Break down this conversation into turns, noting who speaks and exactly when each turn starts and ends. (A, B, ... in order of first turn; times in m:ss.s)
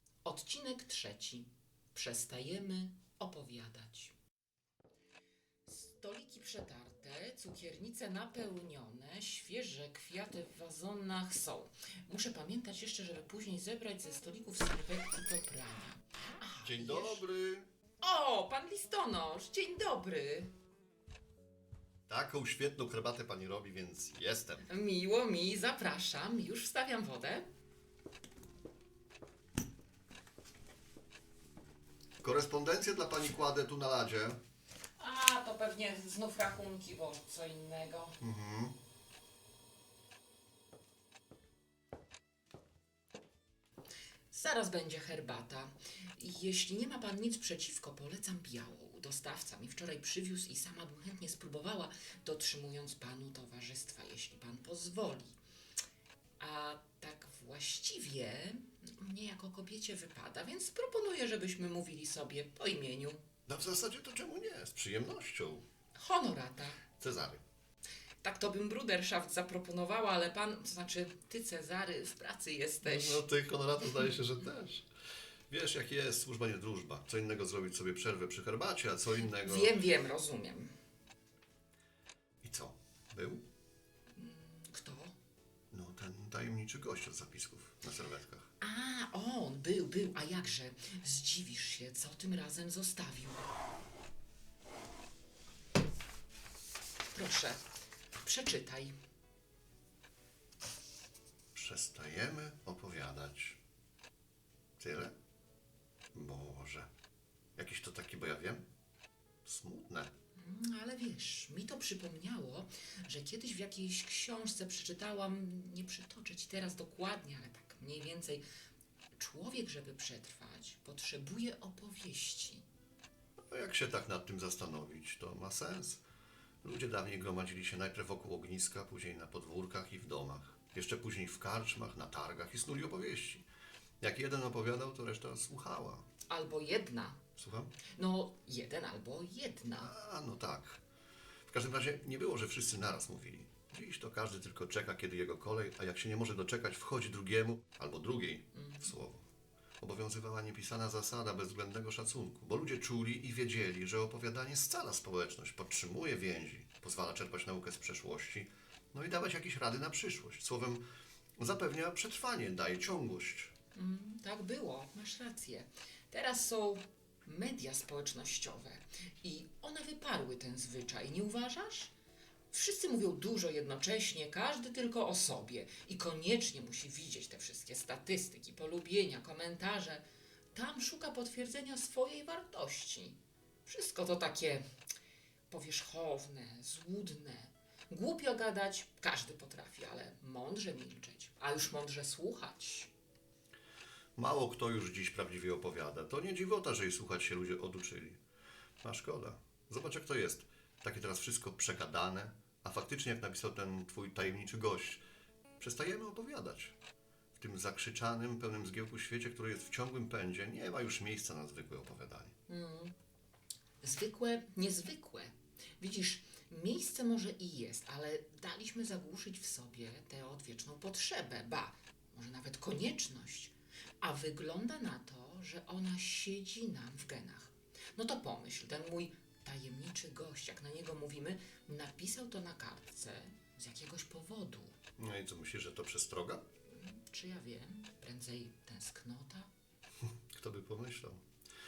0:00.2-0:04.1 A
0:05.6-0:17.2 A
0:16.6-0:17.7 B
0:18.0-0:20.5 A
0:22.1-0:24.6 B
0:24.6-0:27.5 A
0:32.2-0:34.4 B
0:35.0-0:38.2 A
0:38.2-0:38.8 B
0:44.3-0:55.4 A
0:56.4-1:03.2 A
1:03.5-1:05.7 B
1:06.0-1:06.9 A
1:07.0-1:07.4 B
1:08.2-1:13.2 A
1:12.8-1:14.9 B
1:15.5-1:19.8 B
1:19.2-1:20.7 A
1:22.4-1:23.4 B
1:24.2-1:25.1 A
1:25.7-1:28.5 B
1:28.6-1:33.4 A
1:37.1-1:37.6 A
1:38.2-1:39.0 A
1:41.5-1:43.6 B
1:44.8-1:45.1 B
1:46.1-1:46.9 B
1:47.6-1:48.6 B
1:49.4-1:50.1 B
1:50.4-1:58.4 A
1:59.2-2:02.6 A
2:03.5-2:06.0 B
2:06.6-2:13.5 B
2:14.0-2:16.0 B
2:16.3-2:17.2 A
2:17.4-2:17.7 B
2:17.9-2:19.9 A
2:19.8-2:20.8 B
2:21.5-2:29.2 B
2:28.6-2:28.9 A
2:29.8-2:40.8 B
2:41.4-2:43.5 B
2:43.8-2:51.9 A
2:52.5-3:04.6 A
3:05.5-3:12.9 A
3:14.2-3:18.2 B
3:18.8-3:25.0 B
3:25.6-3:26.8 B
3:27.4-3:32.3 B
3:32.5-3:32.9 A
3:33.8-3:54.8 A
3:55.0-3:56.4 B
3:56.7-3:59.5 A
4:00.3-4:01.2 B